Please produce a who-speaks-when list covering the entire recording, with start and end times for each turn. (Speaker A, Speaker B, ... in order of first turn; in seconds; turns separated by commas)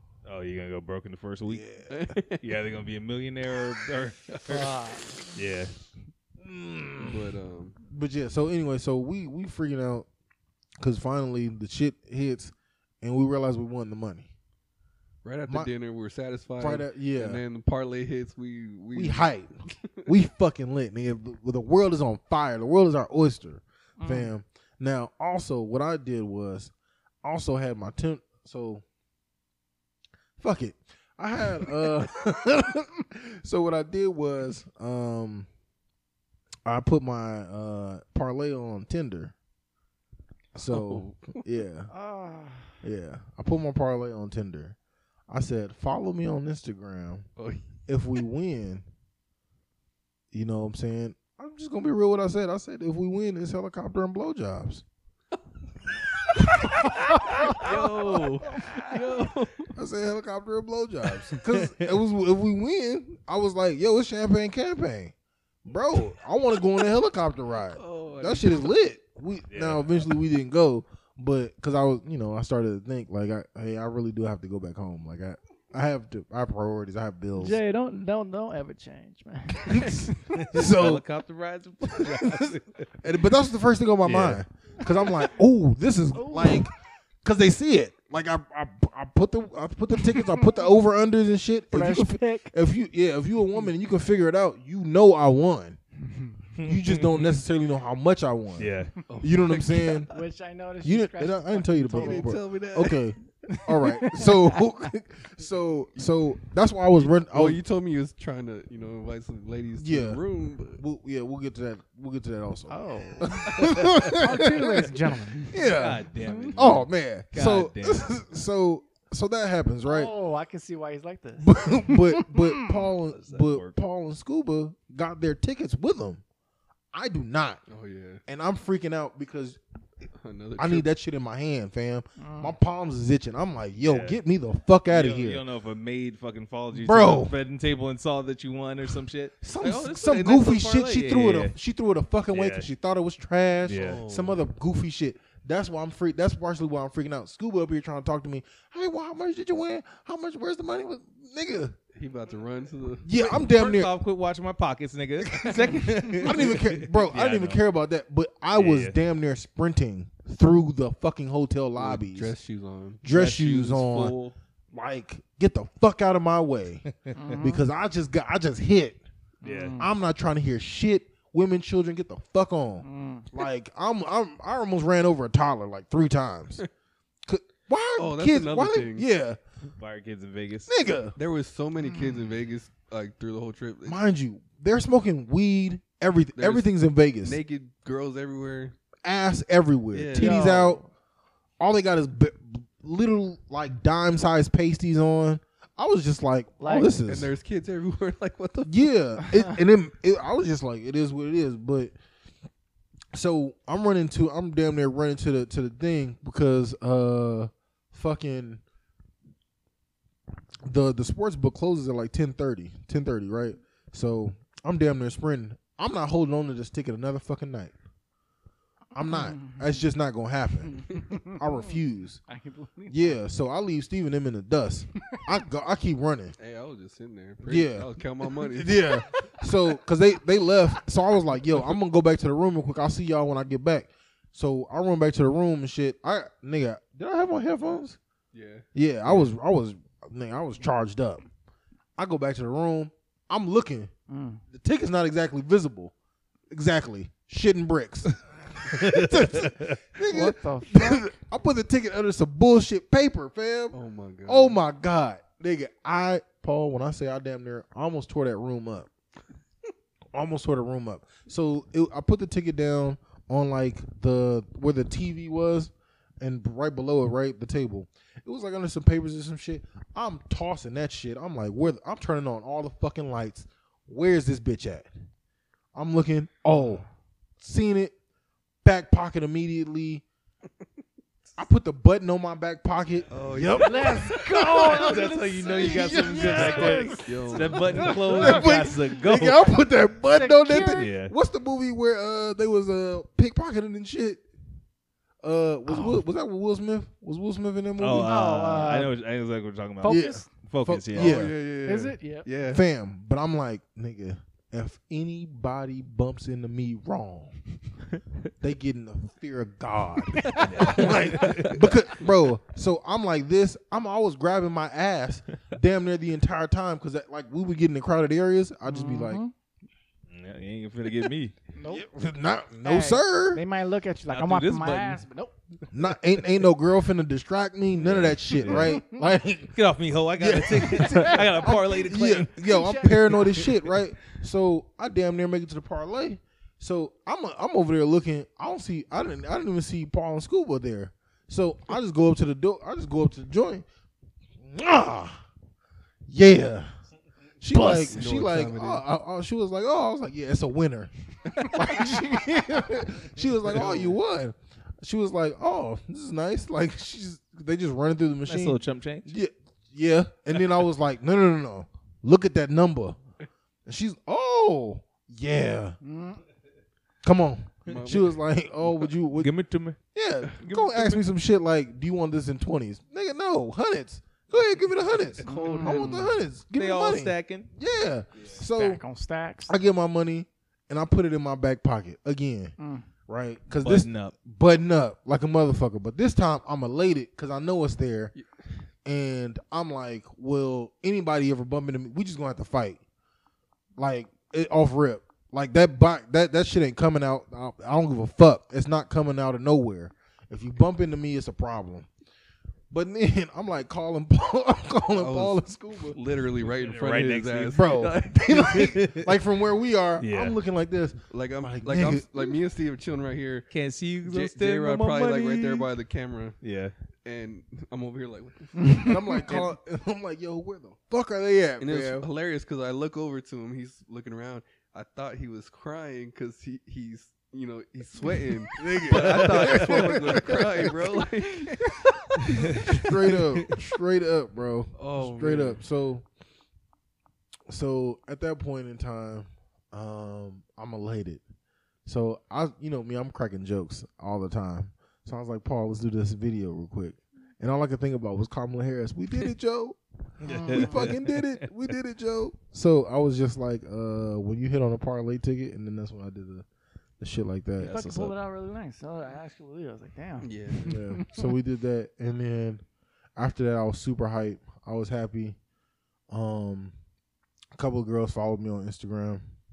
Speaker A: 0.2-1.6, Speaker B: 1.5-1.9, Speaker C: 1.9-2.4, Speaker A: 2.4-4.8, Speaker D: 4.5-5.1, Speaker A: 5.3-5.7, Speaker B: 6.4-7.2, Speaker C: 7.0-7.8, Speaker B: 7.8-10.1, Speaker B: 10.8-14.3, Speaker C: 15.2-19.9, Speaker B: 16.6-17.4, Speaker B: 18.9-28.8, Speaker D: 24.0-24.3, Speaker B: 30.4-35.5, Speaker B: 36.6-39.3, Speaker B: 40.5-41.9, Speaker C: 40.7-41.4, Speaker D: 41.9-42.8, Speaker B: 42.8-44.8, Speaker B: 45.3-47.3, Speaker C: 47.4-47.6, Speaker B: 47.9-48.9, Speaker B: 50.3-54.8, Speaker B: 56.8-57.6, Speaker D: 56.9-57.8, Speaker C: 57.5-59.7, Speaker D: 58.5-59.0, Speaker B: 59.8-65.1, Speaker B: 65.7-77.6, Speaker C: 67.8-68.7, Speaker A: 69.5-70.1, Speaker D: 77.4-80.4, Speaker B: 79.7-81.0, Speaker A: 80.3-82.9, Speaker B: 81.9-86.7, Speaker A: 84.0-84.4, Speaker D: 86.1-86.7, Speaker B: 87.2-95.8, Speaker D: 90.0-90.5, Speaker D: 91.7-92.5, Speaker A: 96.6-97.4, Speaker B: 96.6-100.1, Speaker A: 98.6-98.9, Speaker C: 99.1-100.2, Speaker D: 100.1-102.3, Speaker B: 100.8-107.6, Speaker C: 101.9-103.0, Speaker D: 103.5-104.6, Speaker C: 107.0-110.8, Speaker B: 109.8-110.2, Speaker B: 110.8-120.1, Speaker D: 112.7-115.7, Speaker A: 113.8-114.1, Speaker A: 115.6-118.1, Speaker D: 116.2-116.5, Speaker D: 119.8-122.8, Speaker B: 121.4-126.2, Speaker A: 123.1-123.8, Speaker B: 126.9-127.6, Speaker C: 127.7-128.2, Speaker B: 128.3-129.6, Speaker C: 130.2-130.9, Speaker B: 130.6-135.4, Speaker D: 132.2-132.6, Speaker A: 133.8-134.2, Speaker A: 134.9-141.6, Speaker B: 136.7-137.4, Speaker B: 139.4-151.8, Speaker A: 142.3-142.7, Speaker A: 143.6-144.3, Speaker C: 151.9-153.1, Speaker B: 153.0-153.9, Speaker A: 153.3-157.6, Speaker B: 155.5-162.3, Speaker A: 158.5-158.9, Speaker C: 161.8-163.0, Speaker B: 163.0-164.2, Speaker A: 163.1-164.3, Speaker B: 164.7-166.9, Speaker A: 166.9-167.4, Speaker D: 167.1-167.7, Speaker B: 167.4-169.0, Speaker D: 169.4-169.9, Speaker A: 169.4-169.8, Speaker B: 169.8-176.6, Speaker D: 172.8-173.3, Speaker B: 177.3-179.4, Speaker C: 178.0-179.1, Speaker A: 179.8-180.7, Speaker B: 180.7-181.2, Speaker C: 181.2-184.0, Speaker D: 181.9-182.2, Speaker B: 183.8-187.4, Speaker C: 186.4-186.7, Speaker C: 187.2-188.8, Speaker B: 189.0-190.8, Speaker C: 189.9-190.8, Speaker D: 190.2-190.7, Speaker B: 191.6-197.3, Speaker D: 196.6-196.9, Speaker C: 197.1-198.9, Speaker B: 198.6-201.9, Speaker B: 203.1-208.6, Speaker B: 210.7-217.7, Speaker B: 218.9-222.2, Speaker D: 219.0-219.8, Speaker D: 220.7-223.2, Speaker B: 222.9-226.4, Speaker C: 226.4-228.9, Speaker B: 227.4-227.9, Speaker B: 228.5-238.0, Speaker C: 238.3-239.3, Speaker B: 238.7-241.2, Speaker B: 242.0-243.9, Speaker D: 244.1-244.4, Speaker B: 244.5-245.9, Speaker B: 246.5-258.9, Speaker A: 248.7-249.8, Speaker D: 250.0-251.2, Speaker C: 253.7-254.6, Speaker B: 260.1-274.9, Speaker B: 275.7-276.9, Speaker B: 277.4-277.9, Speaker B: 278.6-280.0, Speaker B: 281.4-294.2, Speaker C: 283.1-284.2, Speaker D: 283.6-288.6, Speaker A: 284.6-289.5, Speaker C: 287.1-287.8, Speaker D: 290.1-290.9, Speaker A: 290.7-291.1, Speaker B: 295.2-298.5, Speaker D: 295.7-296.0, Speaker A: 297.8-301.2, Speaker D: 298.0-299.0, Speaker D: 299.8-300.3, Speaker B: 299.8-301.4, Speaker C: 300.9-302.6, Speaker D: 301.6-302.3, Speaker B: 302.5-307.3, Speaker B: 308.4-319.2, Speaker D: 310.1-310.9, Speaker A: 310.4-311.6, Speaker D: 318.7-319.3, Speaker A: 320.1-321.4, Speaker D: 321.6-321.9, Speaker B: 321.7-323.4, Speaker D: 322.6-325.4, Speaker A: 324.1-325.0, Speaker B: 325.7-329.6, Speaker A: 327.8-328.8, Speaker D: 328.4-328.9, Speaker A: 329.5-332.3, Speaker B: 330.2-343.7, Speaker D: 330.8-331.6, Speaker D: 332.4-333.5, Speaker B: 344.4-345.2, Speaker B: 346.1-346.7, Speaker B: 347.4-363.0, Speaker C: 347.5-348.8, Speaker C: 353.5-354.0, Speaker A: 358.3-359.1, Speaker B: 363.7-365.8, Speaker D: 365.8-366.2, Speaker B: 367.0-369.3, Speaker C: 367.7-368.2, Speaker A: 369.2-369.8, Speaker B: 369.9-378.8, Speaker C: 370.2-371.0, Speaker C: 375.3-376.1, Speaker D: 375.3-376.1, Speaker A: 376.5-377.5, Speaker D: 378.5-379.5, Speaker B: 379.5-382.6, Speaker D: 382.6-382.9, Speaker B: 383.1-388.1, Speaker A: 383.6-384.1, Speaker B: 388.9-392.8, Speaker B: 393.8-401.9, Speaker B: 402.7-406.0, Speaker C: 404.9-408.7, Speaker A: 406.4-409.2, Speaker B: 407.5-412.4, Speaker A: 410.0-410.4, Speaker C: 411.1-413.5, Speaker A: 413.5-415.7, Speaker C: 414.0-416.4, Speaker A: 416.4-416.7, Speaker C: 417.1-419.4, Speaker D: 418.6-419.4, Speaker B: 418.8-422.1, Speaker C: 421.6-432.9, Speaker B: 428.5-430.9, Speaker A: 428.9-430.2, Speaker A: 432.3-433.6, Speaker B: 432.4-436.1, Speaker C: 434.8-435.6, Speaker B: 437.5-441.2, Speaker B: 441.9-456.5, Speaker A: 450.2-451.2, Speaker D: 450.2-450.9, Speaker B: 457.0-458.1, Speaker D: 457.6-461.3, Speaker C: 460.2-460.8, Speaker B: 460.6-462.6, Speaker B: 463.2-465.4, Speaker B: 466.1-466.7, Speaker B: 467.6-469.2